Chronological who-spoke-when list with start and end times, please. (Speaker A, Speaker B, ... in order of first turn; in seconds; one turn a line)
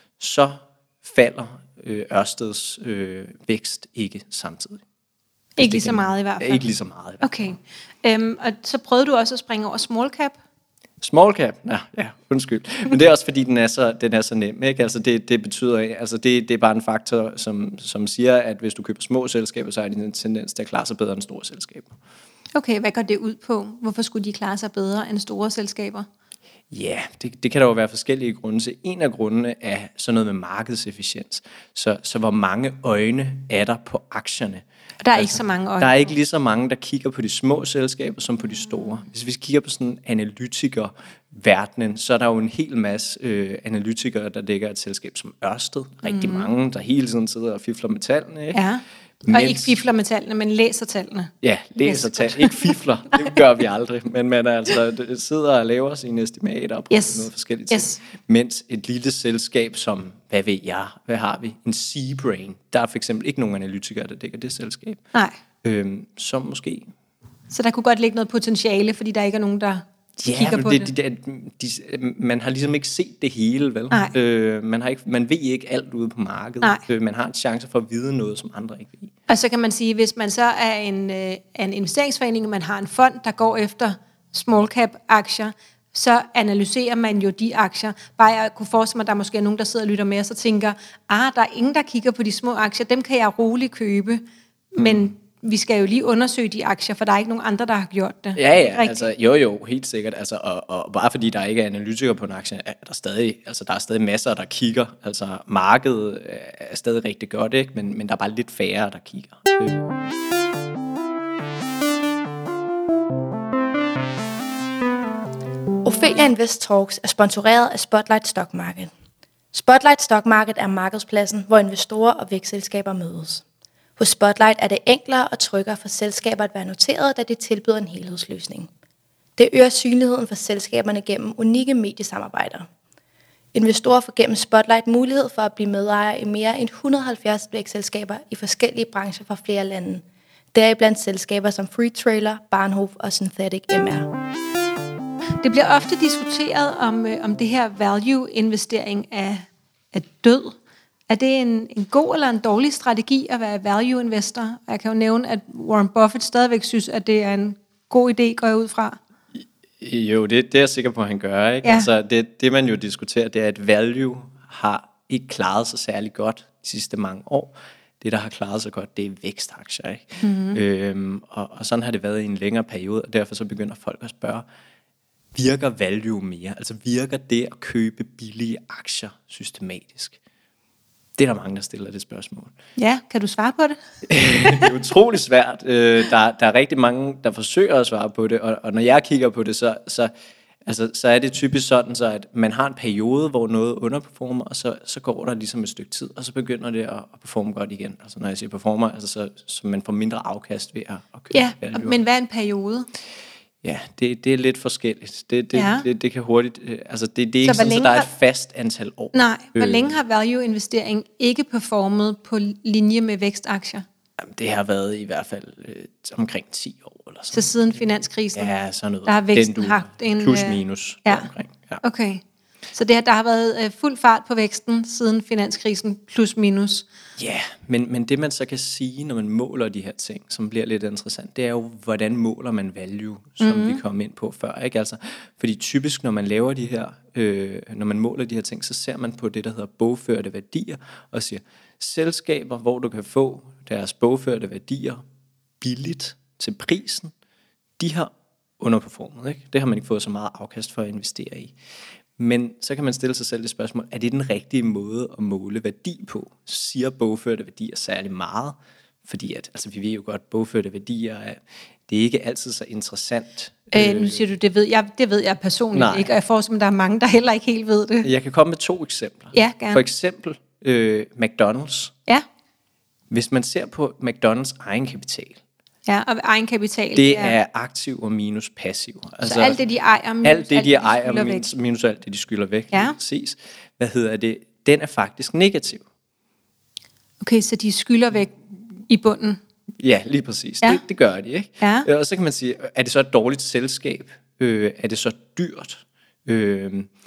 Speaker A: 0.2-4.8
Speaker B: 5.6-6.6
Speaker A: 5.6-7.5
Speaker B: 7.2-10.4
Speaker A: 11.0-21.9
Speaker B: 22.6-26.1
Speaker A: 26.7-34.6
Speaker B: 35.0-36.0
Speaker A: 35.1-48.6
Speaker B: 46.0-46.5
Speaker B: 48.5-51.3
Speaker A: 49.2-49.8
Speaker A: 51.4-65.0
Speaker B: 51.9-52.7
Speaker B: 56.9-58.0
Speaker A: 65.6-66.9
Speaker B: 67.5-70.9
Speaker A: 70.2-79.1
Speaker B: 79.3-99.1
Speaker A: 94.8-95.1
Speaker A: 98.4-109.9
Speaker C: 115.8-118.9
Speaker C: 119.5-123.4
Speaker C: 124.0-128.7
Speaker C: 129.4-132.7
Speaker C: 133.5-140.0
Speaker C: 140.5-144.1
Speaker B: 145.4-150.6
Speaker B: 151.1-159.0
Speaker A: 159.4-174.4
Speaker B: 161.6-161.9
Speaker B: 170.2-170.6
Speaker A: 175.3-180.2
Speaker A: 181.2-182.5
Speaker B: 182.8-183.8
Speaker A: 184.1-190.1
Speaker B: 184.3-184.7
Speaker A: 190.7-202.0
Speaker B: 201.3-202.9
Speaker A: 203.6-209.9
Speaker B: 205.5-205.9
Speaker B: 207.4-208.1
Speaker B: 209.1-213.8
Speaker A: 214.2-217.5
Speaker B: 217.3-218.5
Speaker A: 218.3-221.8
Speaker B: 219.1-221.3
Speaker B: 221.8-222.2
Speaker B: 222.7-226.9
Speaker A: 227.2-245.0
Speaker B: 233.4-233.8
Speaker A: 245.6-247.1
Speaker A: 247.8-251.5
Speaker A: 252.2-264.2
Speaker B: 263.7-268.1
Speaker A: 265.7-266.1
Speaker A: 268.0-271.9
Speaker B: 269.3-269.8
Speaker A: 273.1-275.4
Speaker B: 275.9-277.4
Speaker A: 276.9-279.6
Speaker B: 279.2-281.4
Speaker A: 280.2-285.8
Speaker B: 287.2-289.4
Speaker A: 289.8-296.9
Speaker B: 291.6-291.9